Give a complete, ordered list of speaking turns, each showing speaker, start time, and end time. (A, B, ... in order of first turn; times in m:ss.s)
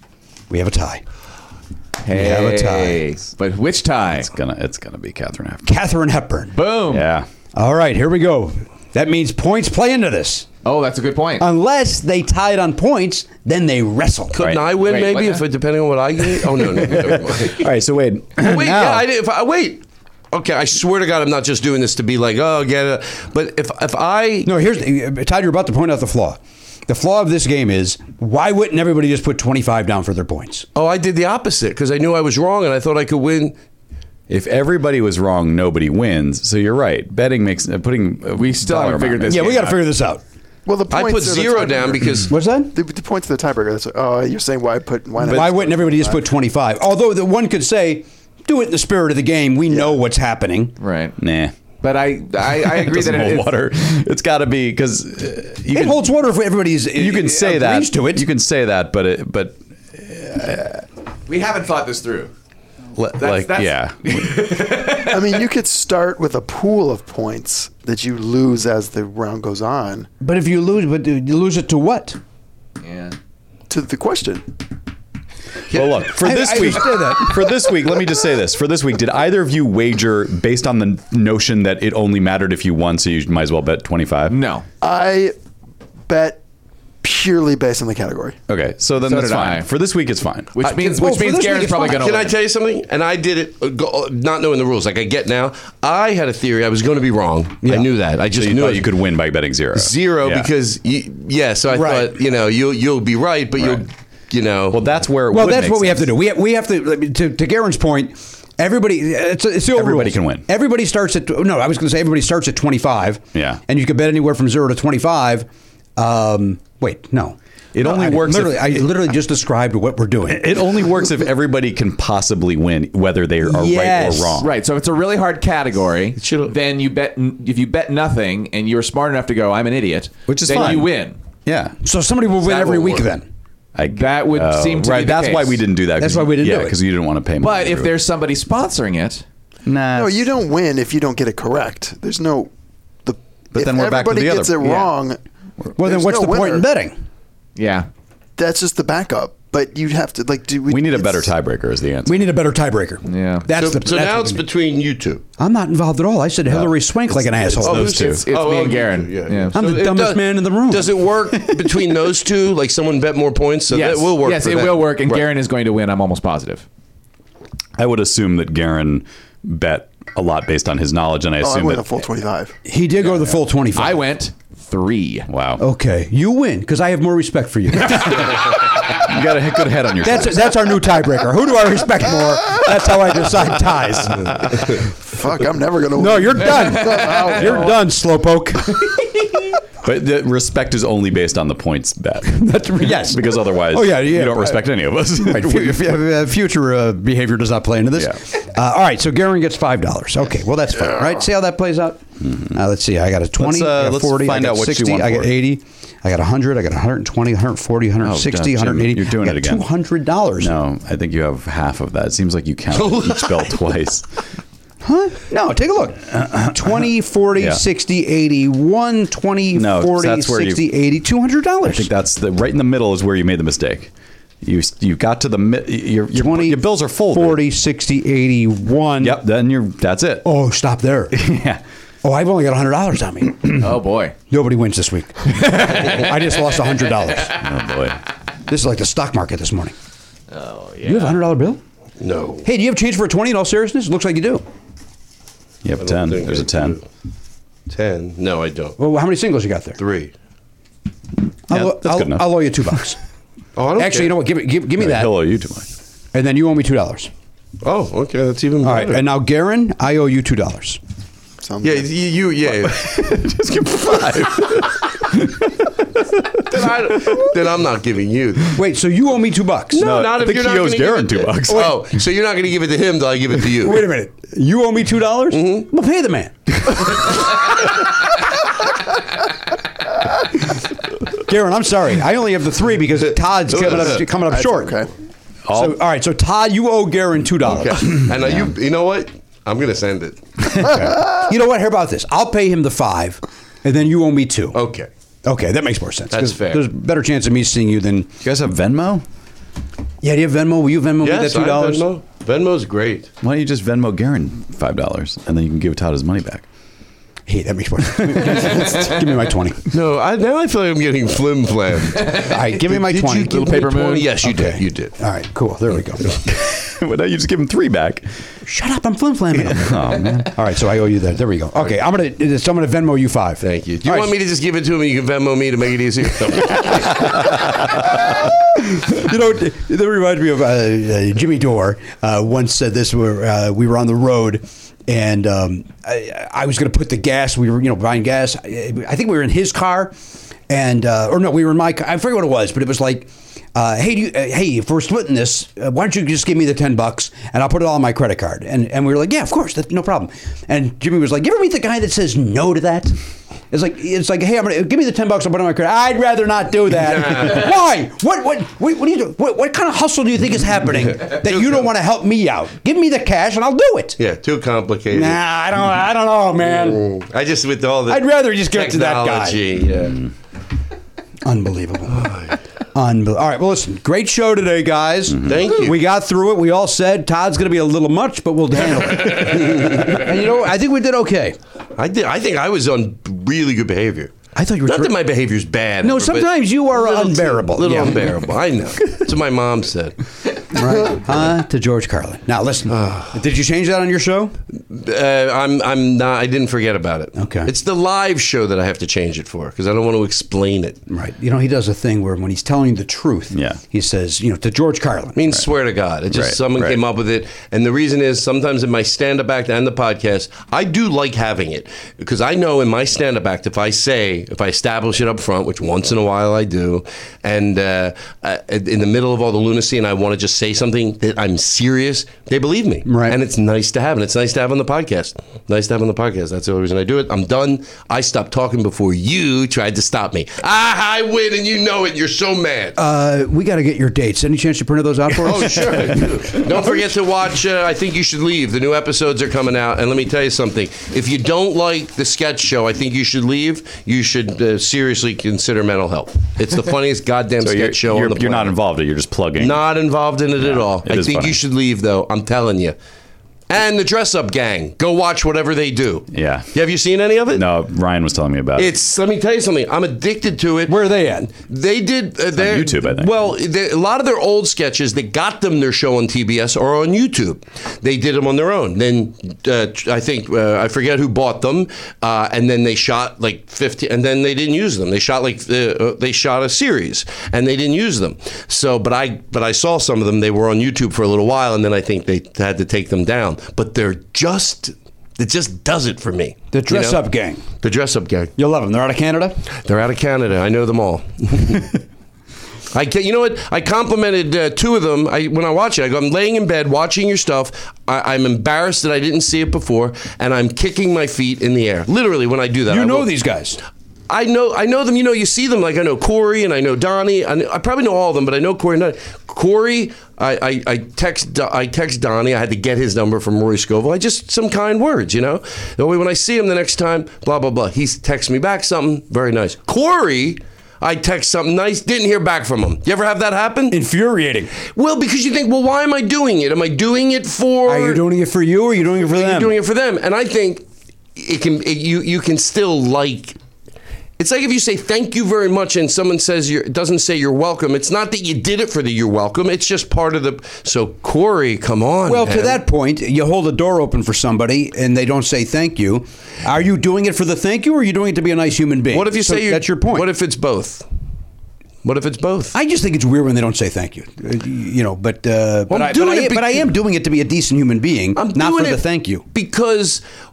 0:00.5-0:01.0 A
0:02.0-0:04.3 B
0:02.1-0:03.0 A
0:04.1-0:05.7 C
0:05.6-0:06.6 A
0:06.5-0:07.1 B
0:06.9-0:07.3 C
0:07.5-0:10.5 A
0:10.6-0:11.4 B
0:11.4-0:14.4 A
0:14.3-0:17.6 D
0:14.8-0:15.4 B
0:16.8-0:19.0 C
0:18.4-0:24.5 D
0:24.4-0:30.6 A
0:30.7-0:33.6 D
0:34.3-0:39.8 C
0:38.4-0:39.8 B
0:39.3-0:40.2 A
0:40.6-0:46.2 E
0:40.9-0:42.3 D
0:42.3-0:42.7 A
0:45.3-0:45.5 C
0:45.3-0:50.7 A
0:50.8-0:51.2 B
0:51.2-0:51.5 C
0:51.8-0:53.5 B
0:52.5-0:56.1 C
0:55.7-0:58.2 A
0:56.9-1:00.8 C
1:01.3-1:02.3 B
1:02.9-1:04.6 C
1:03.2-1:05.4 B
1:05.1-1:10.1 E
1:10.2-1:12.2 A
1:12.8-1:13.2 B
1:13.7-1:14.5 E
1:15.7-1:16.0 D
1:15.7-1:24.4 C
1:16.1-1:17.6 A
1:24.3-1:24.6 B
1:24.8-1:25.3 E
1:26.1-1:26.4 E
1:27.0-1:28.4 E
1:28.5-1:30.6 C
1:29.0-1:29.7 B
1:30.6-1:32.3 B
1:30.6-1:31.0 D
1:30.9-1:32.0 A
1:31.9-1:38.9 D
1:38.3-1:40.5 C
1:39.7-1:44.8 D
1:41.7-1:42.1 A
1:44.7-1:46.1 C
1:45.3-2:00.5 A
1:49.7-1:50.4 C
1:53.3-1:53.6 C
1:57.7-1:58.8 C
2:00.3-2:04.5 C
2:03.4-2:04.4 A
2:04.4-2:11.2 B
2:06.1-2:06.5 D
2:10.3-2:11.8 C
2:11.8-2:13.2 A
2:12.5-2:13.0 D
2:13.7-2:17.9 C
2:13.9-2:15.6 B
2:16.0-2:16.7 A
2:17.4-2:19.2 B
2:19.6-2:20.3 C
2:19.9-2:22.5 E
2:23.0-2:25.2 E
2:23.5-2:24.9 C
2:25.8-2:26.6 E
2:25.8-2:27.0 A
2:27.6-2:27.9 B
2:28.4-2:31.3 E
2:30.7-2:32.3 C
2:32.0-2:34.4 A
2:33.0-2:33.4 B
2:33.5-2:35.2 D
2:35.4-2:38.0 A
2:37.5-2:45.2 D
2:37.6-2:38.3 C
2:37.8-2:39.6 B
2:39.5-2:40.9 A
2:43.7-2:46.6 B
2:47.8-2:51.8 C
2:51.4-2:52.6 E
2:52.6-2:54.0 A
2:53.7-2:55.3 B
2:55.3-2:55.6 C
2:55.6-2:58.6 A
2:58.9-3:00.8 C
3:00.0-3:04.6 A
3:04.0-3:04.5 C
3:04.8-3:07.8 E
3:06.0-3:08.8 A
3:09.8-3:16.0 C
3:12.2-3:30.6 A
3:22.2-3:22.6 C
3:23.4-3:25.3 C
3:28.0-3:29.7 C
3:30.4-3:34.1 C
3:32.7-3:33.5 D
3:34.8-3:41.9 A
3:36.2-3:36.5 C
3:37.4-3:37.6 C
3:39.5-3:40.7 C
3:41.6-3:43.9 C
3:44.4-3:47.4 C
3:46.1-3:49.2 A
3:49.0-3:50.3 C
3:50.2-3:51.2 A
3:51.1-3:51.6 C
3:52.0-3:53.6 A
3:53.5-3:54.1 B
3:54.3-3:57.3 A
3:57.3-3:58.0 C
3:58.5-3:59.7 A
4:00.3-4:01.2 B
4:00.8-4:01.6 A
4:02.0-4:02.4 D
4:02.4-4:04.4 A
4:05.6-4:06.8 C
4:05.8-4:06.8 D
4:07.7-4:08.8 D
4:08.8-4:09.8 A
4:09.8-4:10.1 D
4:11.5-4:13.0 A
4:11.5-4:12.8 C
4:13.6-4:14.2 D
4:13.8-4:15.1 A
4:14.8-4:15.7 C
4:16.1-4:17.1 A
4:17.6-4:19.1 D
4:18.6-4:20.8 A
4:21.4-4:21.8 E
4:21.6-4:23.1 D
4:22.6-4:25.7 C
4:26.4-4:27.2 C
4:26.5-4:28.6 D
4:28.5-4:29.8 A
4:29.7-4:33.9 D
4:29.8-4:31.8 C
4:33.6-4:37.0 A
4:35.3-4:35.7 D
4:41.3-4:44.8 A
4:43.5-4:44.0 D
4:44.0-4:44.9 E
4:45.5-4:45.8 C
4:45.5-4:48.1 A
4:47.4-4:50.2 D
4:48.1-4:48.4 C
4:50.6-4:54.6 A
4:54.5-4:54.9 D
4:55.2-4:58.1 A
4:56.1-4:56.6 D
4:58.2-4:59.0 C
5:00.0-5:01.9 A
5:01.0-5:03.1 D
5:03.2-5:06.4 C
5:07.3-5:09.7 A
5:09.7-5:14.9 D
5:12.2-5:16.0 A
5:13.3-5:14.1 B
5:16.2-5:18.0 C
5:18.4-5:24.1 A
5:19.3-5:20.4 C
5:23.4-5:27.1 D
5:28.8-5:40.0 A
5:40.5-5:52.9 A
5:53.5-6:04.0 A
5:56.7-5:57.5 D
6:01.0-6:01.7 D
6:04.0-6:05.2 D
6:04.9-6:06.8 A
6:06.4-6:10.0 D
6:07.9-6:09.4 A
6:11.2-6:12.1 A
6:11.9-6:12.3 D
6:12.7-6:21.4 A
6:15.2-6:15.8 D
6:21.8-6:24.1 D
6:24.3-6:25.0 A
6:24.6-6:30.0 D
6:25.8-6:28.0 A
6:30.5-6:34.3 A
6:30.6-6:31.2 D
6:32.7-6:33.2 D
6:34.7-6:40.8 D
6:37.1-6:37.5 A
6:40.9-6:45.2 A
6:43.3-6:43.6 C
6:45.2-7:12.8 D
6:46.1-6:46.8 C
7:02.8-7:03.2 A
7:12.8-7:16.8 A
7:15.1-7:28.6 D
7:27.4-7:29.6 C
7:29.4-7:32.8 D
7:30.4-7:31.4 C
7:33.5-7:37.4 D
7:36.1-7:36.5 C
7:37.3-7:38.7 C
7:38.6-8:07.1 D
7:40.7-7:41.3 A
7:42.4-7:43.2 C
8:06.5-8:07.4 A
8:07.6-8:08.3 D
8:08.4-8:09.4 A
8:09.6-8:11.7 D
8:12.7-8:23.1 D
8:22.7-8:23.6 A
8:24.1-8:43.8 D
8:43.7-8:44.5 A
8:44.6-8:48.0 D
8:47.6-8:49.5 A
8:49.0-8:50.6 D
8:51.2-8:53.4 D
8:54.2-9:02.6 D
9:02.0-9:10.0 A
9:08.9-9:10.8 D
9:11.8-9:12.5 D
9:12.5-9:19.2 A
9:15.7-9:16.7 D
9:18.1-9:20.0 D